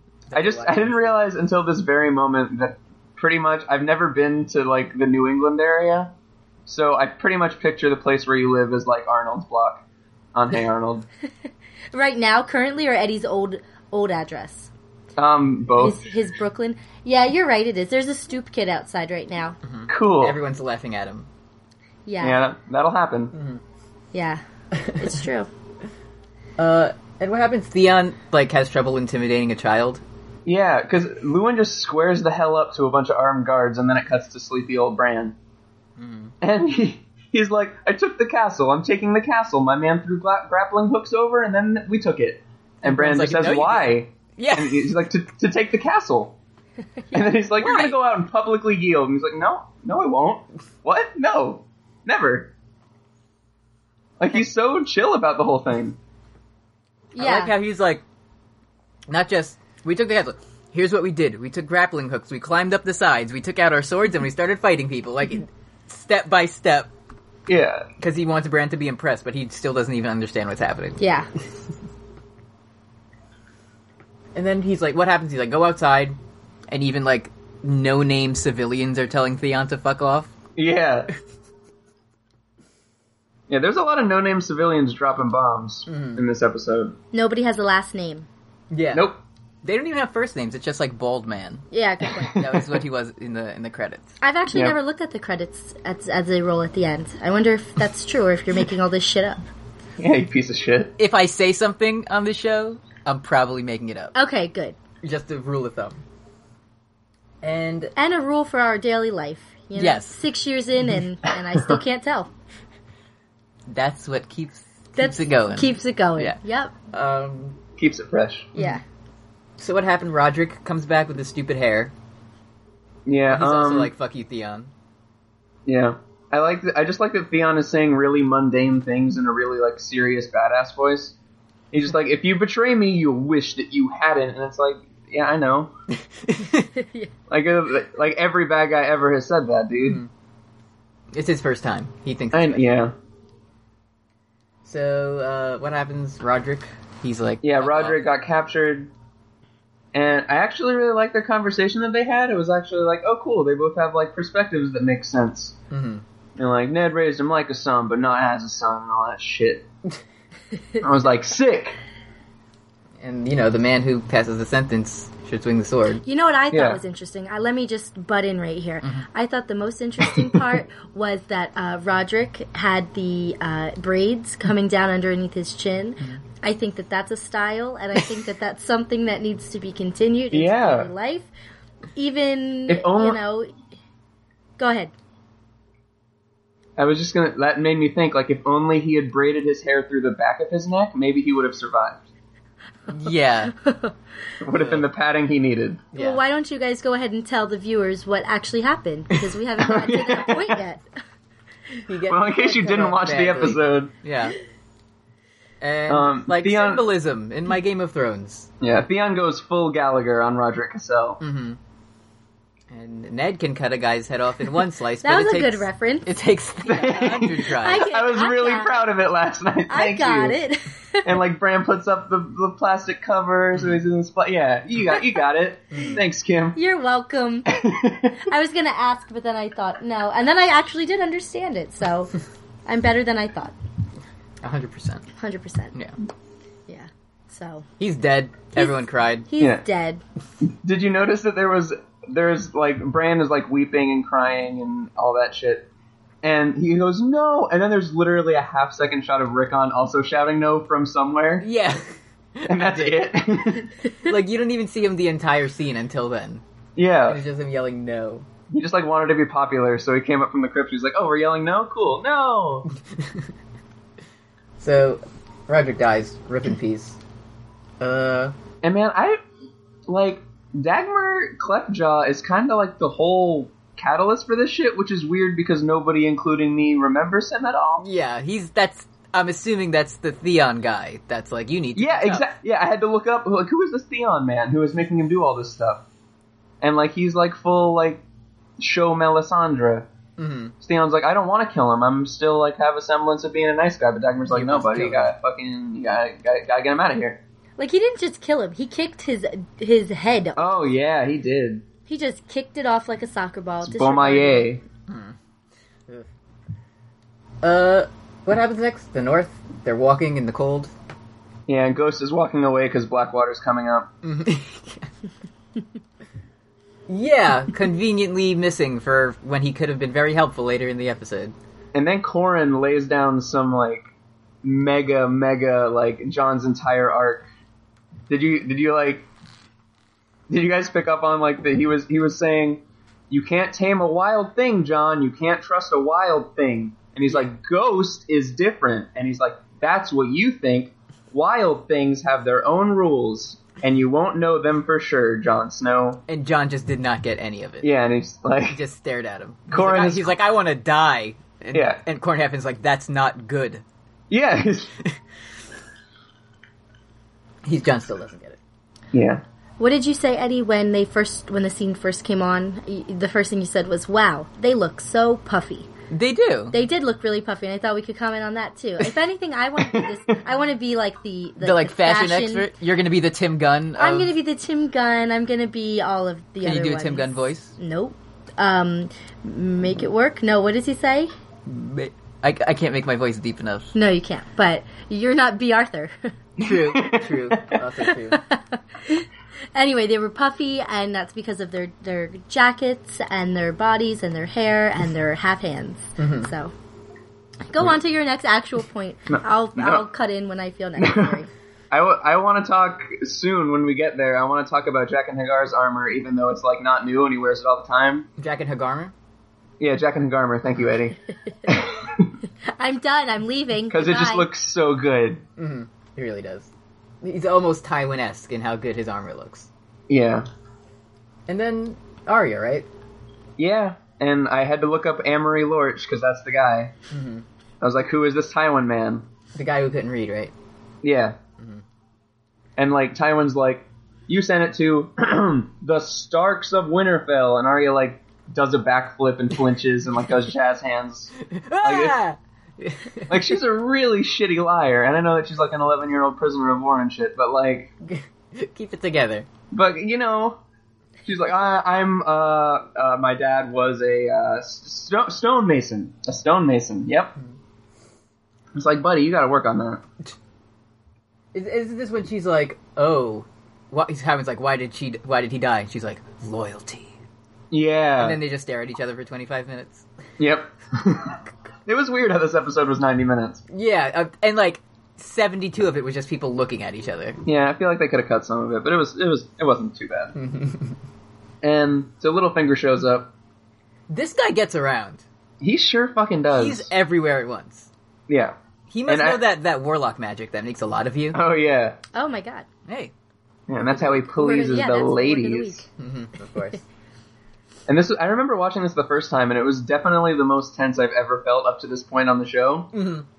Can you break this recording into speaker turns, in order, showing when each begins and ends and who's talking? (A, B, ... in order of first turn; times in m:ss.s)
0:00.3-0:01.2 A
0:00.3-0:06.1 B
0:06.7-0:09.8 B
0:10.3-0:11.1 B
0:11.9-0:14.7 C
0:15.2-0:16.1 B
0:15.8-0:19.6 C
0:19.6-0:21.3 A
0:19.9-0:20.4 B
0:22.0-0:22.4 C
0:22.2-0:23.3 B
0:23.3-0:23.6 A
0:24.1-0:24.4 C
0:24.8-0:25.1 A
0:24.9-0:25.5 C
0:26.6-0:30.0 A
0:30.4-0:35.4 B
0:36.0-0:36.3 A
0:36.4-0:46.4 B
0:42.8-0:44.9 A
0:47.1-0:52.5 B
0:47.6-0:48.0 A
0:54.2-0:56.0 B
0:57.1-0:57.5 C
0:57.2-0:58.0 A
0:59.1-1:06.9 A
1:07.5-1:07.9 B
1:08.0-1:11.0 A
1:11.0-1:11.3 C
1:14.3-1:16.2 A
1:16.7-1:20.3 A
1:20.6-1:21.1 B
1:23.5-1:27.0 B
1:25.9-1:26.2 A
1:27.1-1:28.3 C
1:28.7-1:29.1 A
1:28.9-1:29.2 B
1:29.6-1:31.7 A
1:31.7-1:32.4 C
1:32.2-1:32.8 B
1:32.3-1:34.2 A
1:34.2-1:39.4 C
1:40.0-1:40.9 B
1:41.0-1:44.1 A
1:44.1-1:44.8 C
1:45.0-1:46.0 A
1:47.4-1:47.9 A
1:48.0-1:52.3 C
1:49.8-1:50.2 A
1:53.7-1:56.4 A
1:55.0-1:56.7 C
1:56.9-1:57.6 A
1:57.8-1:58.5 B
1:58.6-1:58.8 C
1:59.6-2:01.9 A
2:03.0-2:03.9 B
2:03.3-2:04.7 A
2:05.6-2:11.1 B
2:11.7-2:15.7 B
2:16.1-2:16.7 A
2:16.8-2:17.1 C
2:17.3-2:20.0 B
2:19.8-2:20.1 A
2:21.1-2:22.6 A
2:22.3-2:22.9 B
2:24.6-2:28.0 A
2:27.4-2:28.9 B
2:29.9-2:35.6 B
2:35.7-2:36.0 A
2:36.4-2:39.7 B
2:40.8-2:41.8 B
2:43.0-2:46.0 A
2:46.0-3:01.3 C
2:46.5-2:46.8 B
3:00.3-3:00.9 B
3:02.0-3:03.5 C
3:02.7-3:03.2 B
3:04.6-3:04.9 C
3:06.8-3:12.0 B
3:12.9-3:13.5 A
3:13.6-3:13.9 C
3:14.4-3:15.9 B
3:14.6-3:14.8 A
3:15.9-3:16.2 A
3:15.9-3:20.8 C
3:19.6-3:20.6 B
3:21.9-3:24.4 A
3:22.1-3:23.9 B
3:25.6-3:28.5 A
3:25.9-3:26.9 B
3:28.6-3:31.2 B
3:31.2-3:31.6 A
3:32.7-3:37.9 A
3:35.0-3:36.1 C
3:36.6-3:40.4 B
3:37.5-3:38.9 C
3:39.7-3:41.1 C
3:41.0-3:46.6 B
3:45.7-3:46.0 A
3:46.6-3:47.6 C
3:47.5-3:48.2 B
3:48.2-3:52.1 C
3:52.6-3:53.5 C
3:54.4-3:55.0 A
3:55.2-3:55.7 C
3:56.7-3:57.6 C
3:57.8-3:59.2 A
3:58.6-4:00.0 C
4:00.4-4:05.7 B
4:06.2-4:11.4 B
4:11.4-4:13.0 A
4:12.4-4:13.7 B
4:13.9-4:16.4 A
4:16.8-4:17.2 B
4:17.1-4:18.2 A
4:18.5-4:22.6 B
4:24.6-4:27.0 A
4:27.8-4:28.3 A
4:28.6-4:29.2 B
4:29.9-4:37.8 B
4:37.8-4:42.2 A
4:41.7-4:45.8 B
4:46.6-4:48.0 B
4:48.6-4:49.9 B
4:50.2-4:50.5 A
4:50.6-4:57.2 B
4:54.3-4:55.1 A
4:57.6-5:00.5 C
5:00.4-5:01.6 B
5:01.9-5:04.5 C
5:03.6-5:04.6 B
5:04.9-5:05.2 A
5:07.4-5:10.7 A
5:11.5-5:13.9 B
5:14.0-5:14.9 A
5:16.9-5:21.3 A
5:21.7-5:23.9 B
5:24.4-5:27.3 B
5:28.1-5:29.1 B
5:30.3-5:46.0 B
5:46.1-5:47.7 A
5:47.6-5:48.6 B
5:48.5-5:53.6 A
5:49.5-5:50.1 B
5:51.5-5:51.8 B
5:54.1-5:54.7 B
5:57.4-5:58.4 A
5:58.9-5:59.2 B
5:59.6-6:05.7 C
6:05.9-6:06.5 A
6:06.5-6:12.5 C
6:11.4-6:14.1 A
6:13.8-6:21.1 C
6:16.4-6:17.5 A
6:21.4-6:23.7 A
6:23.7-6:26.1 C
6:26.4-6:27.6 B
6:26.4-6:28.2 A
6:28.1-6:36.5 C
6:36.0-6:36.3 A
6:37.5-6:41.3 C
6:39.1-6:39.8 B
6:40.8-6:41.2 B
6:41.7-6:48.0 B
6:48.2-6:48.9 A
6:49.6-6:52.1 B
6:52.5-6:54.3 C
6:53.7-6:55.2 B
6:55.4-6:56.5 A
6:57.0-6:59.5 A
6:59.9-7:00.2 B
7:01.3-7:02.6 A
7:03.4-7:06.7 B
7:06.9-7:07.2 A
7:07.6-7:09.0 B
7:09.4-7:10.3 A
7:10.8-7:11.2 B
7:12.6-7:22.0 B
7:21.3-7:23.2 A
7:23.1-7:27.7 B
7:27.9-7:29.3 A
7:29.5-7:30.4 B
7:31.0-7:37.1 B
7:38.5-7:39.8 B
7:41.3-7:46.9 A
7:47.5-7:48.2 B
7:48.0-7:49.8 A
7:50.2-7:53.4 B
7:53.5-7:57.2 A
7:57.2-8:00.2 B
8:00.2-8:00.8 A
8:01.4-8:03.1 B
8:03.9-8:05.0 A
8:05.4-8:06.7 B
8:06.3-8:07.7 A
8:08.1-8:09.2 B
8:08.7-8:11.2 A
8:11.1-8:11.8 B
8:11.9-8:12.5 C
8:12.7-8:12.9 A
8:13.5-8:15.6 B
8:13.7-8:15.7 C
8:15.8-8:16.6 A
8:17.7-8:22.7 B
8:22.7-8:23.0 A